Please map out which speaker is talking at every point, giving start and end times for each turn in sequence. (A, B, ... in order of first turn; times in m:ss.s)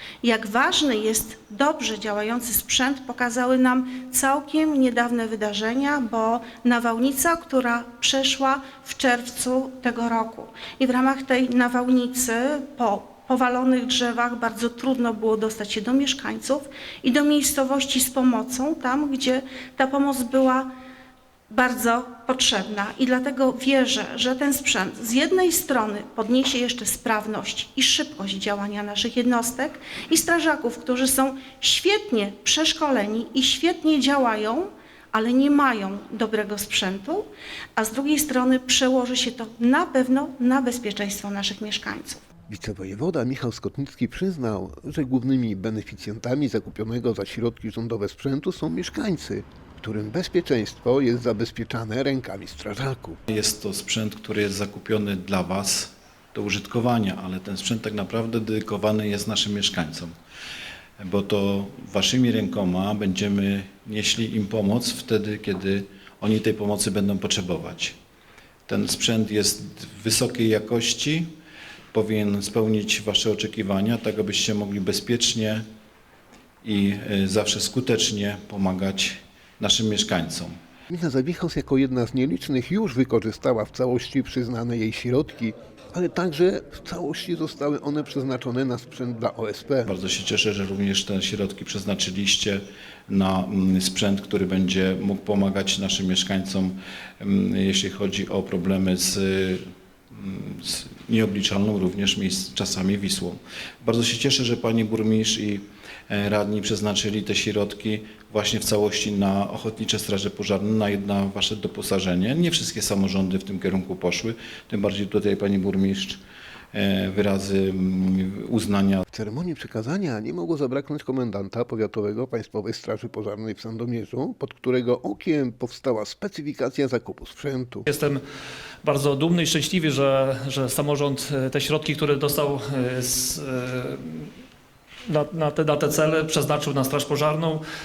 0:00.2-0:20.7 A
0:21.5-0:37.2 A
0:37.8-0:42.2 A
0:42.5-0:53.2 B
0:53.3-1:00.1 C
1:01.0-1:07.9 C
1:08.7-1:11.3 C
1:11.9-1:15.6 C
1:16.6-1:20.5 C
1:20.9-1:29.9 B
1:29.9-1:39.6 C
1:40.1-1:56.2 C
1:56.7-1:59.0 C
1:59.1-2:07.9 B
2:07.9-2:08.2 D
2:08.8-2:14.3 D
2:15.1-2:17.6 D